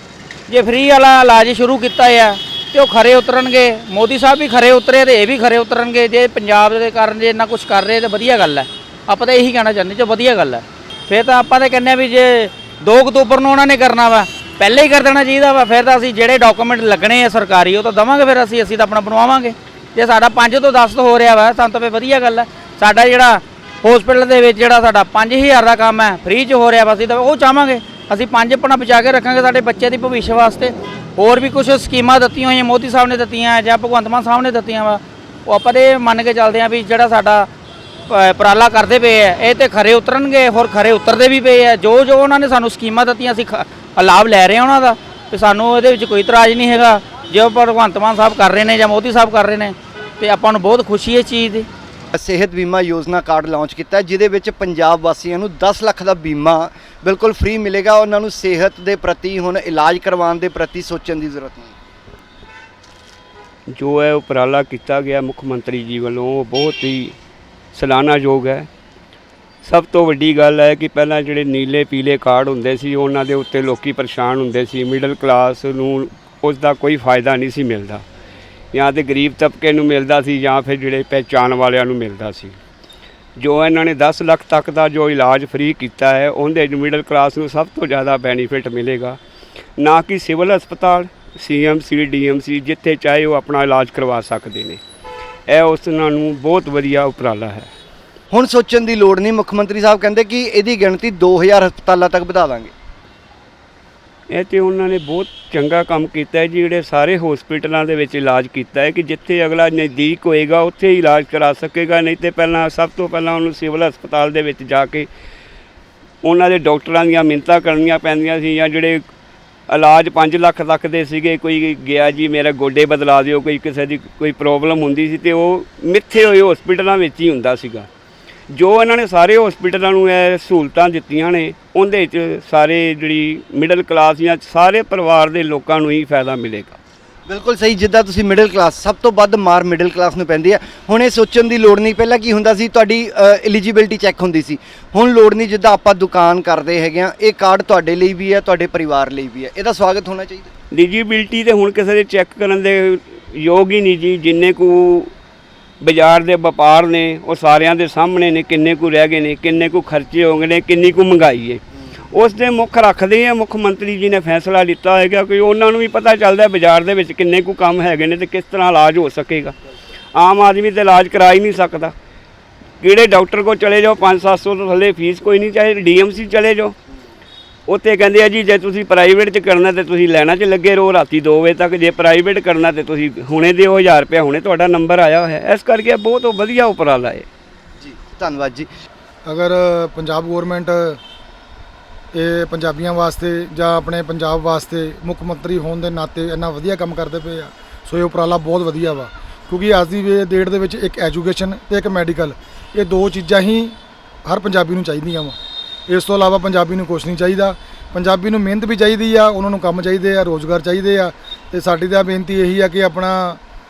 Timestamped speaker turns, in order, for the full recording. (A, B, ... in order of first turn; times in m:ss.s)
0:00.5-0:37.5 A
0:38.1-0:51.7 A
0:52.1-1:01.7 B
1:03.8-1:07.2 C
1:07.7-1:08.7 C
1:09.6-1:18.0 C
1:18.7-1:22.6 C
1:23.4-1:29.2 C
1:29.8-1:34.8 C
1:35.5-1:37.7 C
1:38.3-1:42.7 B
1:44.3-1:55.1 C
1:56.2-1:59.0 C
1:59.7-2:07.9 C
2:08.5-2:16.8 C
2:17.3-2:30.5 B
2:30.7-2:35.1 C
2:35.8-2:41.6 C
2:42.1-2:49.6 C
2:50.2-2:51.9 C
2:52.8-2:56.8 C
2:57.7-3:07.3 C
3:07.8-3:08.7 B
3:09.3-3:11.0 D
3:12.2-3:23.8 D
3:24.3-3:25.4 D
3:25.9-3:33.4 D